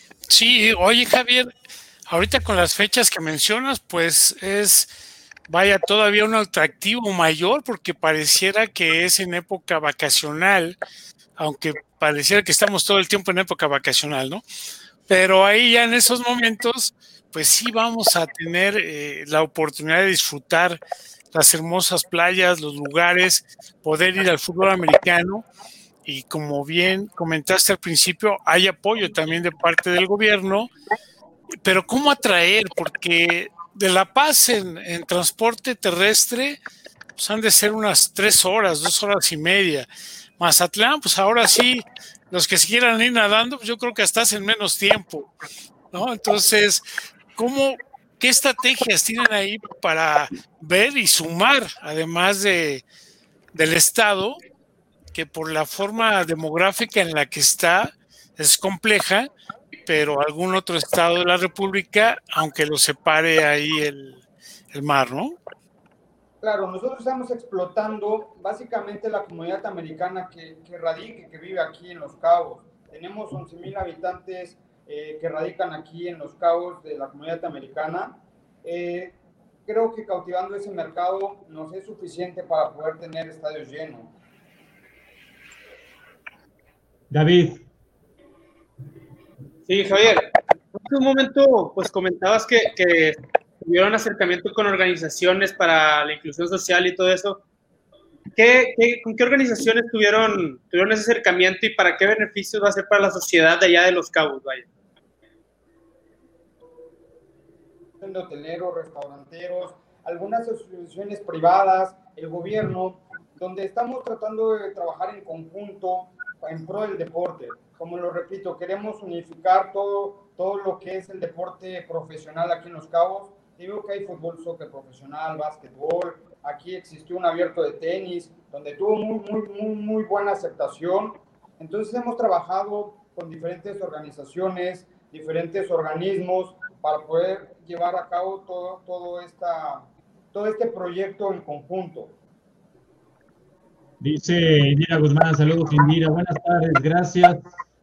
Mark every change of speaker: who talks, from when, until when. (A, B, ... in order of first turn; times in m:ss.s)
0:00.3-0:01.5 A
0:02.1-0:04.9 A
0:05.5-0:10.8 A
0:11.4-0:14.4 A
0:15.1-0:20.8 A
0:21.3-0:25.5 A
0:26.0-0:30.7 A
0:31.6-0:36.6 A
0:37.2-0:39.9 A
0:40.4-0:45.3 A
0:45.9-0:52.8 A
0:53.5-0:54.4 A
0:55.1-0:59.3 A
0:59.8-1:05.4 A
1:06.4-1:19.1 B
1:19.6-1:24.1 B
1:27.1-1:27.6 C
1:29.7-1:37.4 D
1:38.3-1:44.7 D
1:48.0-2:22.1 B
2:24.0-2:27.4 C